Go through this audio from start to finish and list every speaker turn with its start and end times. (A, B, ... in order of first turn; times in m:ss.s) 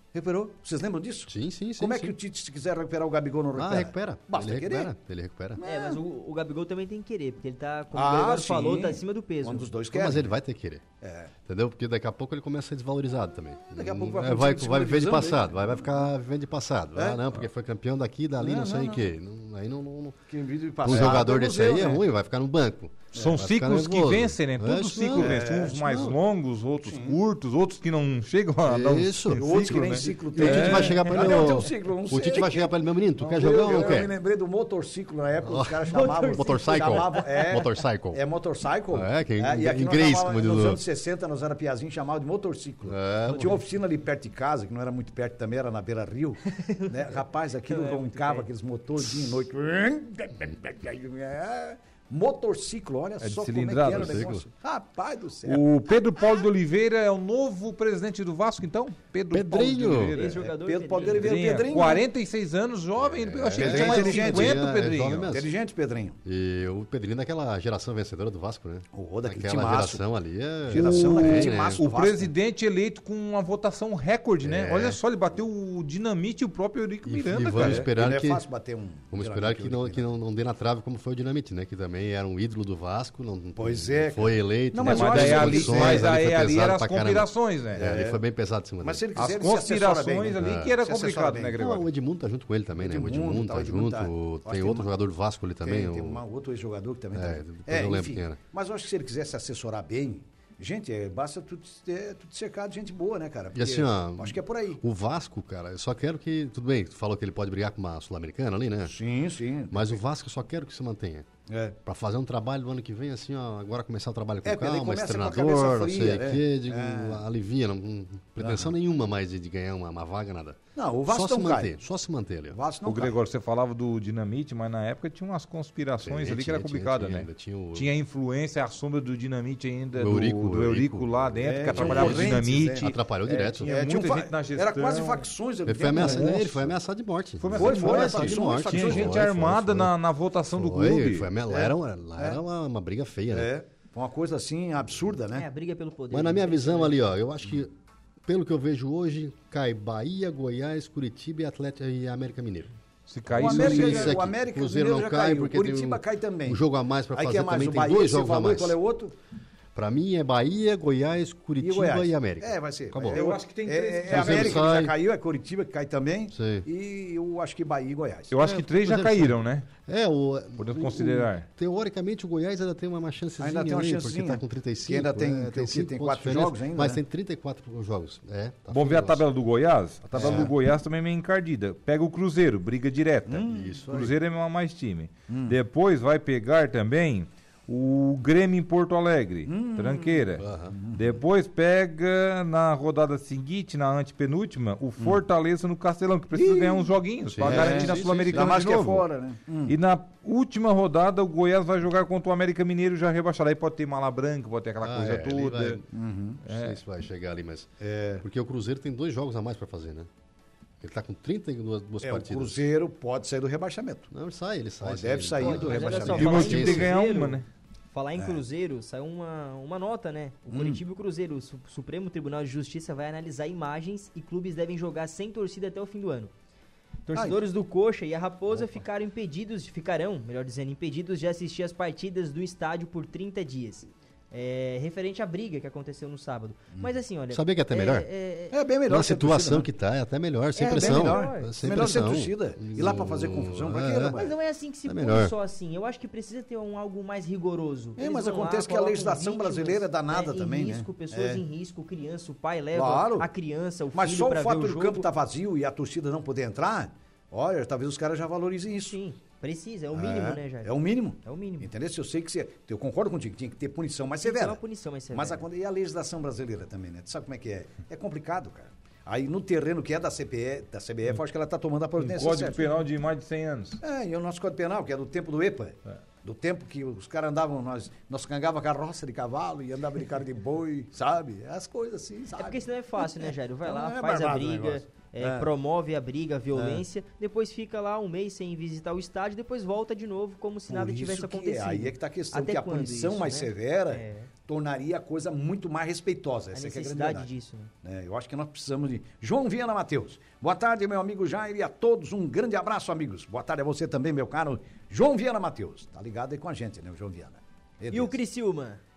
0:00.1-0:04.9 A
0:01.3-0:02.2 B
0:03.5-0:05.6 B
0:05.6-0:06.0 A
0:05.6-0:09.7 C
0:07.9-0:10.3 A
0:09.9-0:10.8 B
0:11.0-0:11.3 A
0:11.4-0:20.2 B
0:13.7-0:16.1 A
0:17.0-0:17.2 A
0:18.4-0:19.1 A
0:20.3-0:22.0 A
0:20.8-0:26.2 B
0:23.1-0:31.1 D
0:25.2-0:25.8 A
0:26.8-0:27.2 A
0:28.6-0:34.1 B
0:29.3-0:55.6 A
0:31.1-0:31.6 C
0:35.4-0:38.2 B
0:35.9-0:37.6 C
0:38.9-0:40.8 B
0:42.8-0:43.6 B
0:46.5-0:47.0 C
0:47.7-0:48.5 C
0:49.0-0:49.3 B
0:53.2-0:54.4 D
0:53.9-0:54.4 B
0:55.4-1:05.3 D
0:59.3-1:00.2 B
1:00.1-1:01.7 C
1:00.5-1:02.0 A
1:03.0-1:05.5 B
1:03.6-1:04.7 A
1:05.3-1:06.2 A
1:06.2-1:11.8 B
1:08.9-1:10.0 A
1:10.7-1:12.3 A
1:10.7-1:17.9 D
1:14.4-1:15.0 B
1:17.0-1:18.4 B
1:17.5-1:20.1 A
1:19.1-1:29.1 B
1:23.6-1:26.1 A
1:24.8-1:27.8 D
1:27.7-1:28.2 A
1:28.8-1:31.6 A
1:29.2-1:31.9 D
1:30.3-1:30.7 B
1:31.6-1:36.2 B
1:32.8-1:34.9 A
1:35.6-1:44.8 A
1:37.1-1:38.4 B
1:43.5-1:49.0 B
1:48.8-1:50.0 A
1:49.7-1:51.3 B
1:51.5-1:51.8 A
1:51.8-2:02.6 B
1:54.4-1:57.2 A
1:58.4-1:58.7 A
2:00.8-2:01.8 A
2:02.5-2:03.2 A
2:02.8-2:15.3 D
2:06.0-2:07.9 B
2:10.0-2:13.7 B
2:11.4-2:16.7 A
2:15.6-2:19.9 B
2:15.9-2:16.5 D
2:17.4-2:21.3 D
2:17.6-2:19.3 A
2:20.5-2:23.5 B
2:21.5-2:22.4 A
2:23.3-2:25.4 A
2:25.3-2:27.0 C
2:26.1-2:27.7 B
2:28.2-2:32.7 B
2:33.1-2:34.2 D
2:33.3-2:38.8 B
2:33.4-2:36.6 A
2:37.1-2:39.1 A
2:39.7-2:43.2 B
2:41.6-2:48.3 A
2:43.1-2:44.7 D
2:44.1-2:44.9 B
2:46.3-2:46.6 B
2:48.3-2:49.7 D
2:48.4-2:59.2 B
2:50.6-2:51.5 D
2:53.4-2:57.0 A
2:58.7-3:19.0 D
3:00.1-3:00.5 A
3:00.1-3:00.5 B
3:03.3-3:04.1 A
3:03.4-3:04.0 B
3:05.3-3:05.6 A
3:09.5-3:11.1 A
3:10.4-3:10.8 B
3:16.3-3:16.9 A
3:17.3-3:18.5 B
3:17.4-3:19.7 A
3:19.7-3:25.8 D
3:24.8-3:25.8 B
3:25.9-3:26.4 A
3:26.4-3:26.8 D
3:26.4-3:27.7 B
3:27.8-3:28.2 A
3:28.2-3:30.1 B
3:30.8-3:32.7 B
3:32.0-3:34.1 A
3:34.1-3:36.9 B
3:34.8-3:36.6 A
3:35.4-3:46.3 C
3:36.0-3:37.4 D
3:40.5-3:40.8 A
3:47.1-3:58.6 C
3:47.1-3:47.4 A
3:57.3-3:58.1 B
3:58.5-3:59.7 A
3:58.8-4:04.2 B
4:00.6-4:01.5 C
4:00.6-4:04.3 A
4:04.1-4:15.1 C
4:04.8-4:05.3 B
4:08.0-4:11.4 A
4:12.7-4:13.3 A
4:13.9-4:19.0 A
4:18.8-4:21.7 C
4:19.9-4:24.6 A
4:24.2-4:25.4 C
4:25.1-4:32.7 A
4:32.0-4:33.8 D
4:33.8-4:45.5 A
4:42.4-4:54.3 C
4:46.5-4:46.8 A
4:50.7-4:57.3 A
4:56.5-4:57.7 C
4:57.8-5:08.2 A
5:07.9-5:08.8 C